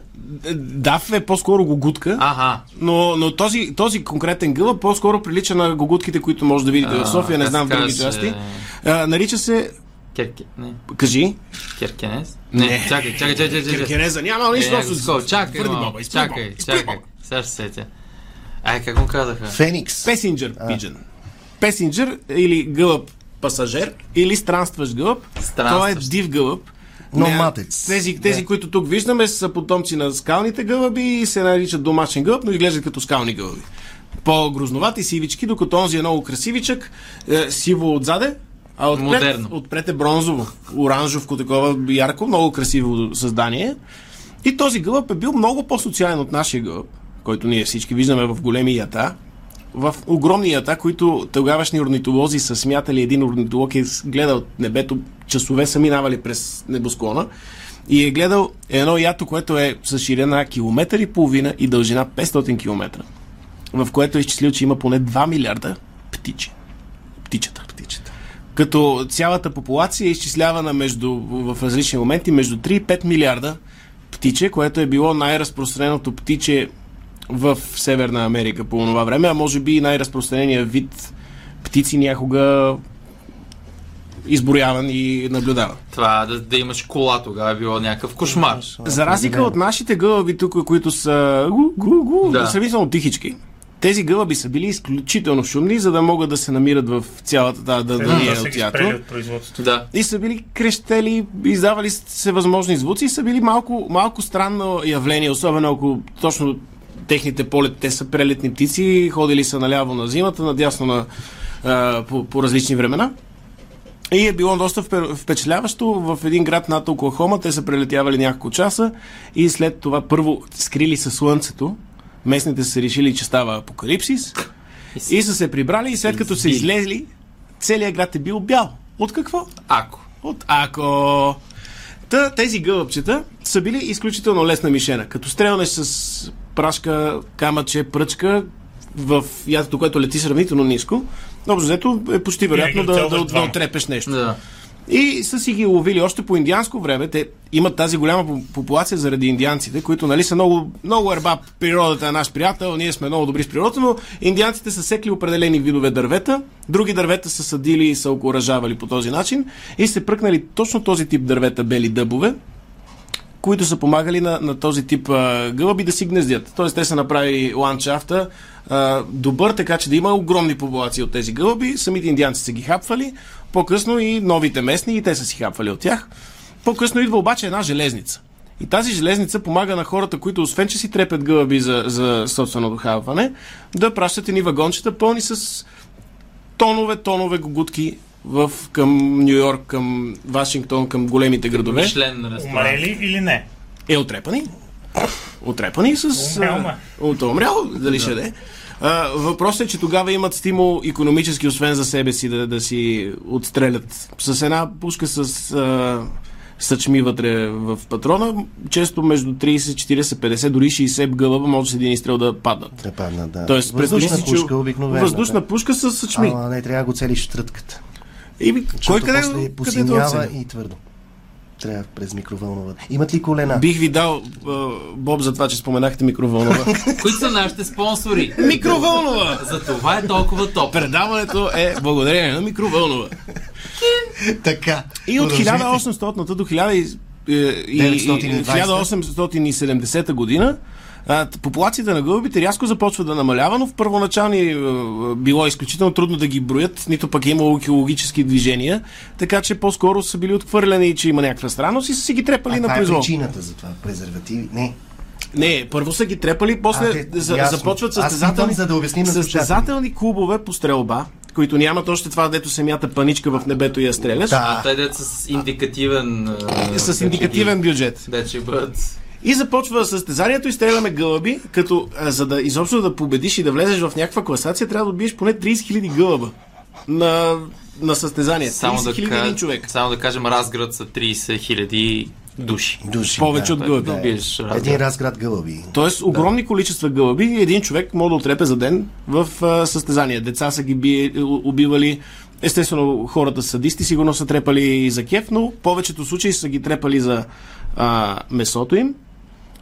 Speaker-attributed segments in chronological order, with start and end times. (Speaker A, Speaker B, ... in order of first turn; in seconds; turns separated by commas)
Speaker A: 0.2-2.2, Speaker B: 2.2-2.6, Speaker A: 2.8-9.7, Speaker B: 6.8-8.7, Speaker B: 10.2-10.8, Speaker A: 10.9-11.4, Speaker B: 11.8-14.0, Speaker A: 12.5-17.0, Speaker B: 14.5-17.9, Speaker B: 18.6-19.6, Speaker C: 19.5-20.8, Speaker A: 20.1-21.0, Speaker A: 21.6-33.6, Speaker B: 25.4-26.1, Speaker C: 27.1-28.4, Speaker A: 34.2-43.8, Speaker B: 38.9-39.5, Speaker A: 44.4-49.2, Speaker A: 49.7-57.3, Speaker A: 57.9-63.0, Speaker A: 63.7-66.5, Speaker A: 67.3-73.6, Speaker A: 74.1-76.7, Speaker A: 77.3-81.1, Speaker A: 81.6-82.8, Speaker A: 84.2-85.8, Speaker B: 85.9-88.7, Speaker C: 88.3-89.6, Speaker A: 88.8-99.0, Speaker B: 92.2-92.6, Speaker D: 98.0-99.6, Speaker B: 98.0-98.4, Speaker B: 99.6-99.9, Speaker A: 99.9-111.1, Speaker A: 111.6-113.1, Speaker A: 114.1-124.3, Speaker A: 125.1-127.1, Speaker B: 126.1-126.7, Speaker A: 127.6-129.5, Speaker B: 129.7-130.0, Speaker A: 130.2-131.4, Speaker A: 132.1-144.1, Speaker D: 142.5-143.6, Speaker B: 144.1-144.4, Speaker A: 144.9-162.4, Speaker A: 163.4-176.1, Speaker A: 176.6-185.7, Speaker A: 186.6-191.9, Speaker B: 191.5-192.9, Speaker D: 192.4-193.5, Speaker A: 193.9-194.5, Speaker A: 195.4-212.8, Speaker D: 196.2-196.8, Speaker C: 212.8-215.4, Speaker A: 213.5-216.4, Speaker C: 216.2-217.8, Speaker A: 218.4-220.3, Speaker C: 218.8-220.8, Speaker C: 221.6-223.7, Speaker A: 223.5-226.8, Speaker C: 226.5-227.2, Speaker B: 227.0-230.9, Speaker A: 228.4-229.5, Speaker C: 228.4-228.8, Speaker A: 230.7-233.2, Speaker B: 233.8-234.1, Speaker C: 234.2-235.8, Speaker A: 235.1-253.1, Speaker C: 237.7-238.9, Speaker C: 252.5-254.8, Speaker A: 255.3-264.4, Speaker C: 256.7-259.7, Speaker C: 264.3-264.7, Speaker B: 264.3-269.0, Speaker A: 266.7-268.1, Speaker A: 269.2-276.3, Speaker A: 276.9-279.7, Speaker B: 278.5-284.8, Speaker C: 282.8-286.3, Speaker A: 283.2-284.0, Speaker A: 285.7-298.9